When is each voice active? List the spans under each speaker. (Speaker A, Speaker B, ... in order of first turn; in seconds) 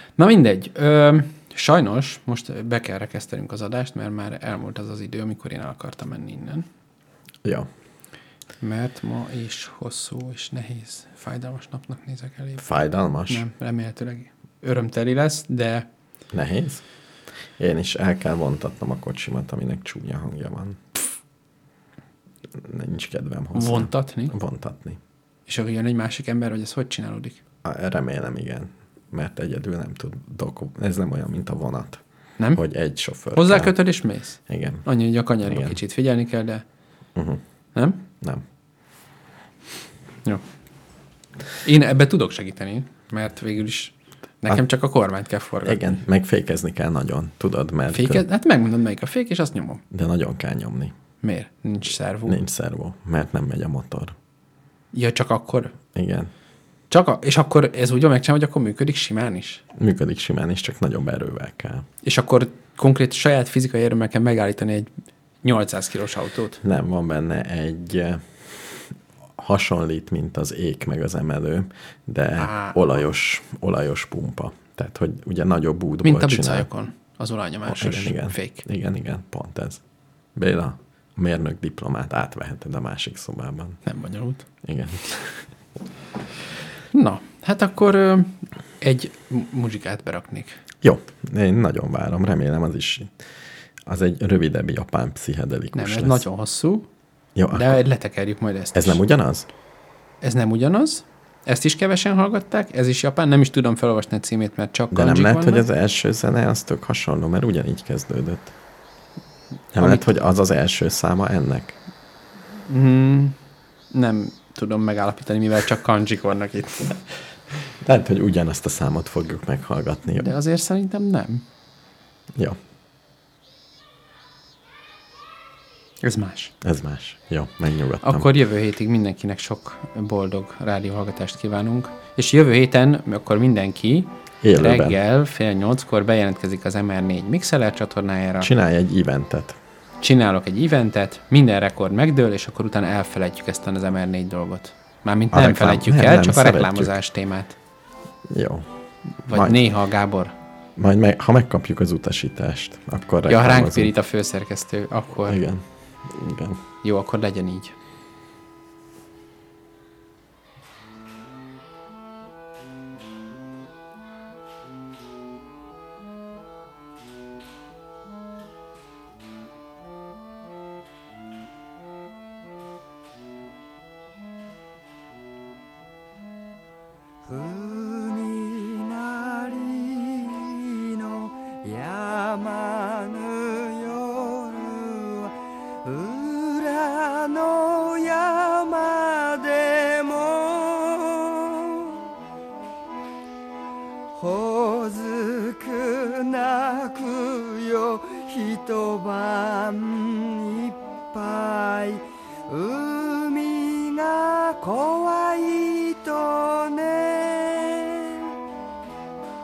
Speaker A: 0.2-6.7, 8.6-12.6, 13.3-15.9, 23.5-24.3, 25.5-27.4, 33.3-36.6, 37.7-38.0, 41.6-45.9, 47.9-49.8, 51.2-52.4, 54.9-55.7, 56.9-59.6, 62.0-64.9, 65.4-66.6, 72.4-72.8, 76.0-78.6, 83.8-84.5, 86.9-90.6, 95.7-96.9, 97.5-99.0, 100.2-105.7, 109.8-110.0, 112.7-113.3, 113.9-117.0, 120.2-121.4, 126.0-126.5, 128.0-138.5, 140.0-147.5, 149.2-150.3, 153.3-155.4, 156.8-157.7
Speaker B: 12.6-13.5, 16.3-16.8, 17.6-20.8, 22.5-25.0, 27.6-32.0, 32.5-33.7, 34.5-34.9, 35.4-35.8, 37.1-37.4, 45.6-48.2, 49.9-50.9, 52.3-54.1, 55.9-56.3, 59.7-61.9, 66.6-76.7, 77.7-79.8, 80.3-83.8, 84.6-85.4, 90.8-93.1, 93.8-96.2, 97.3-97.8, 98.7-99.5, 104.9-108.5, 109.7-111.8, 117.8-120.3, 126.6-128.3, 134.4-135.0, 138.4-139.6, 145.3-146.9, 148.3-148.7, 149.3-149.6, 150.8-153.9, 155.2-156.6
Speaker C: 177.3-185.3, 185.8-192.1, 194.2-208.3